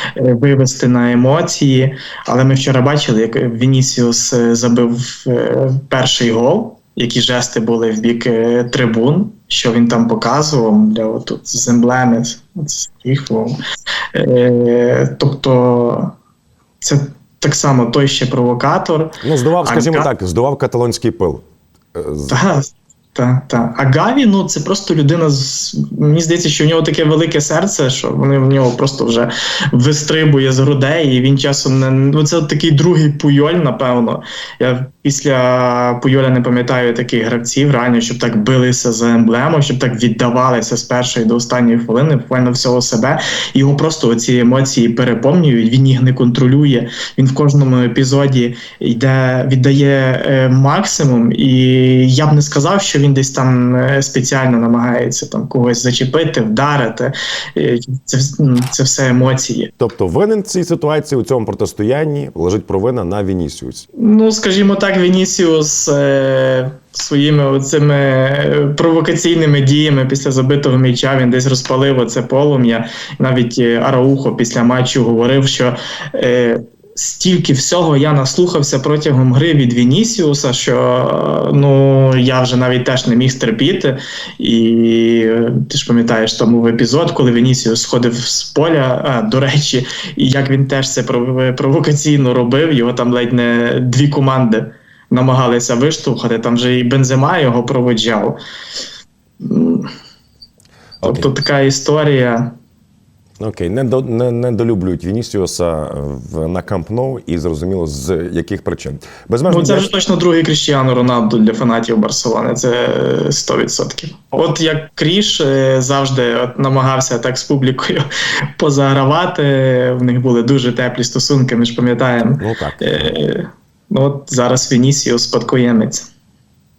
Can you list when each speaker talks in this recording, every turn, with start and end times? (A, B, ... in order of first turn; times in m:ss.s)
0:00.1-0:13.6 A
0:14.1-0:16.1 A
0:16.8-0:20.1 A
0:19.2-0:21.4 B
0:21.9-0:22.4 B
0:22.3-0:59.7 A
0:59.8-1:03.9 B
1:04.0-1:38.4 A
1:39.4-1:39.9 A
1:41.0-1:41.3 B
1:41.0-1:42.6 A
1:43.4-1:49.9 B
1:49.5-2:06.1 A
2:02.4-2:03.2 B